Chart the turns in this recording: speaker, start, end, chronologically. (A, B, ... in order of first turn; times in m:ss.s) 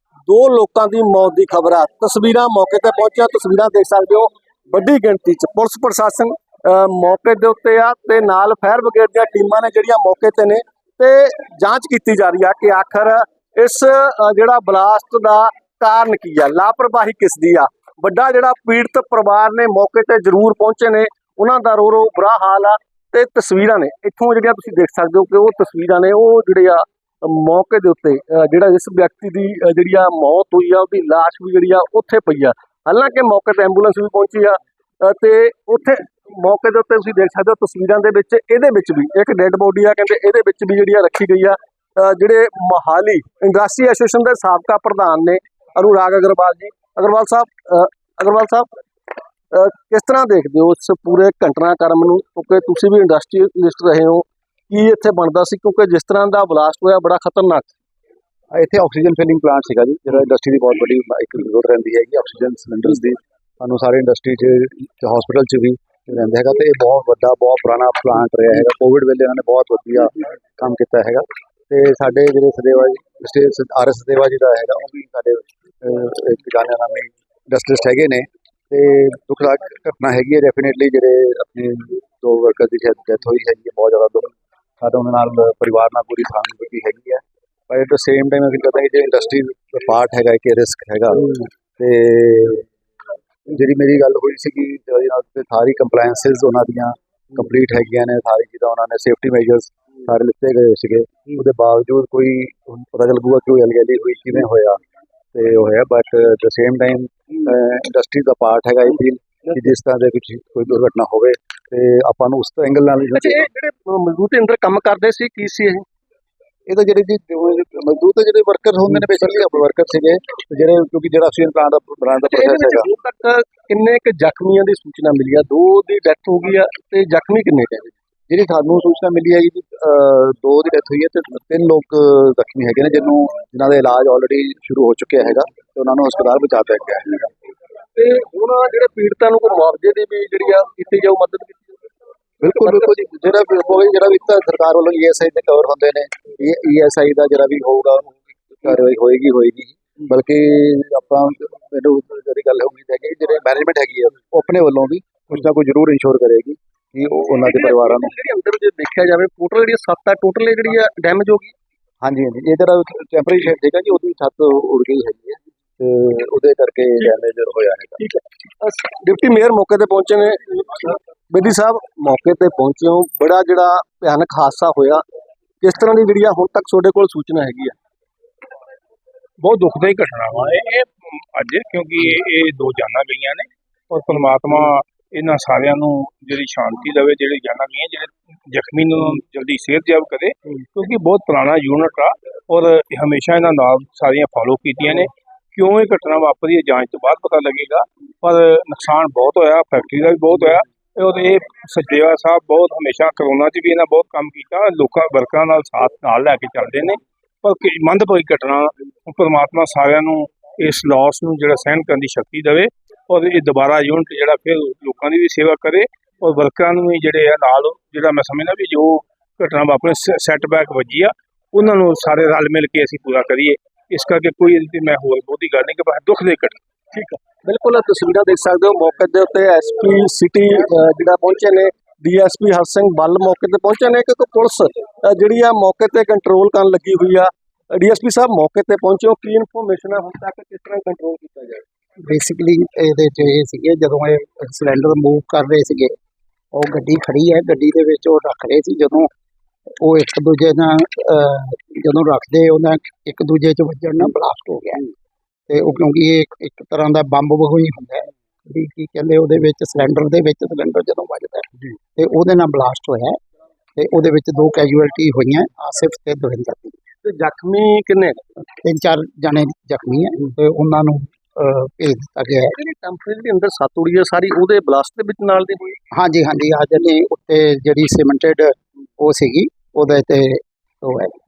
0:00.3-0:48.7 A
0:49.5-0:57.7 A
0:58.5-1:32.7 B
1:33.5-1:44.8 B
1:45.3-1:53.5 B
1:53.1-1:55.8 A
1:56.7-2:02.9 B
2:02.2-2:07.9 A
2:08.3-2:17.3 B
2:18.0-2:21.8 A
2:22.4-2:38.1 B
2:37.4-2:41.5 A
2:42.0-2:48.0 B
2:48.0-2:55.0 A
2:55.6-2:57.8 A
2:59.4-3:46.6 C
3:46.9-4:01.6 A
4:02.0-4:06.0 D
4:06.5-4:09.1 D
4:09.8-4:14.9 D
4:15.5-4:23.2 D
4:23.8-4:26.8 D
4:27.0-4:28.2 A
4:28.6-4:32.6 D
4:32.5-4:35.8 A
4:35.9-4:41.2 D